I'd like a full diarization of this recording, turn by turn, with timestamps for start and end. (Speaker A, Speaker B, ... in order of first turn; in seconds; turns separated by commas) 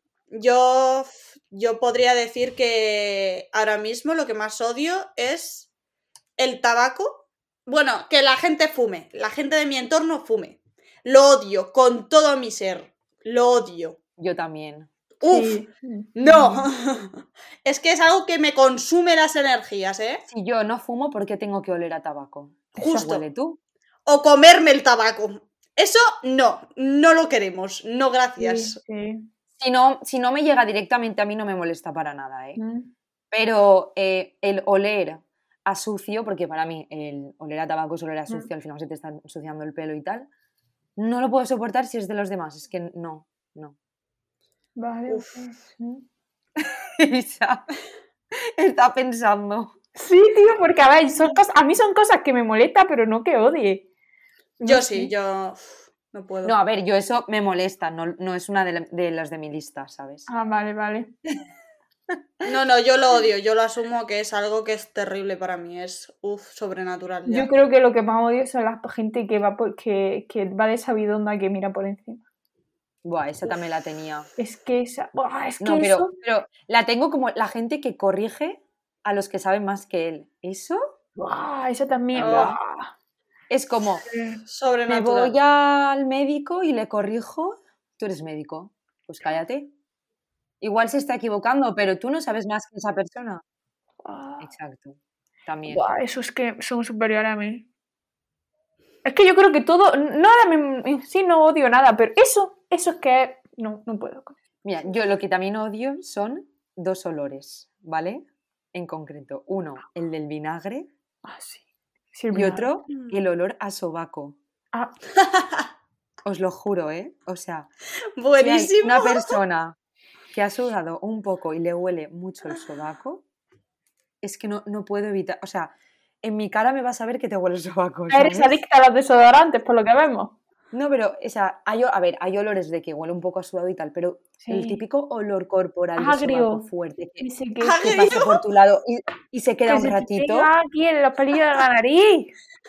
Speaker A: 0.3-5.7, Speaker A: 6.4-14.0, Speaker B: 14.2-14.9, Speaker A: 15.2-15.6, Speaker C: 15.2-16.7, Speaker A: 16.1-20.2, Speaker B: 20.3-23.6, Speaker A: 22.8-23.2, Speaker A: 24.1-28.8, Speaker C: 28.4-29.2, Speaker B: 29.6-32.6, Speaker C: 32.6-32.9, Speaker B: 33.3-40.3, Speaker B: 41.0-43.7, Speaker C: 44.8-46.0, Speaker A: 45.1-45.4, Speaker B: 46.6-47.6, Speaker B: 48.6-49.7, Speaker C: 50.0-53.9, Speaker C: 54.6-55.1, Speaker A: 54.6-56.5, Speaker B: 56.4-60.3, Speaker C: 60.3-61.1, Speaker A: 62.4-67.5, Speaker C: 67.3-72.2, Speaker B: 73.0-74.3, Speaker C: 74.4-76.1, Speaker B: 75.6-80.8, Speaker C: 81.2-82.9, Speaker B: 82.1-82.6, Speaker A: 82.2-82.5, Speaker B: 83.5-84.1, Speaker C: 84.0-84.4, Speaker A: 84.5-85.3, Speaker B: 84.9-89.7, Speaker B: 90.6-93.4, Speaker C: 94.0-94.5, Speaker B: 94.4-95.8, Speaker C: 95.7-97.7, Speaker C: 99.0-104.4, Speaker B: 104.6-110.9, Speaker C: 111.2-111.6, Speaker C: 112.1-112.7, Speaker B: 112.3-114.4, Speaker A: 115.2-115.7, Speaker B: 116.2-117.7, Speaker A: 118.2-119.4, Speaker B: 118.4-119.8, Speaker B: 120.3-123.2, Speaker B: 124.2-128.6, Speaker C: 128.1-130.3, Speaker B: 130.7-137.2, Speaker C: 134.4-134.8, Speaker C: 136.0-136.6, Speaker C: 137.2-137.9, Speaker A: 137.6-138.4, Speaker B: 137.8-140.5, Speaker C: 139.7-142.3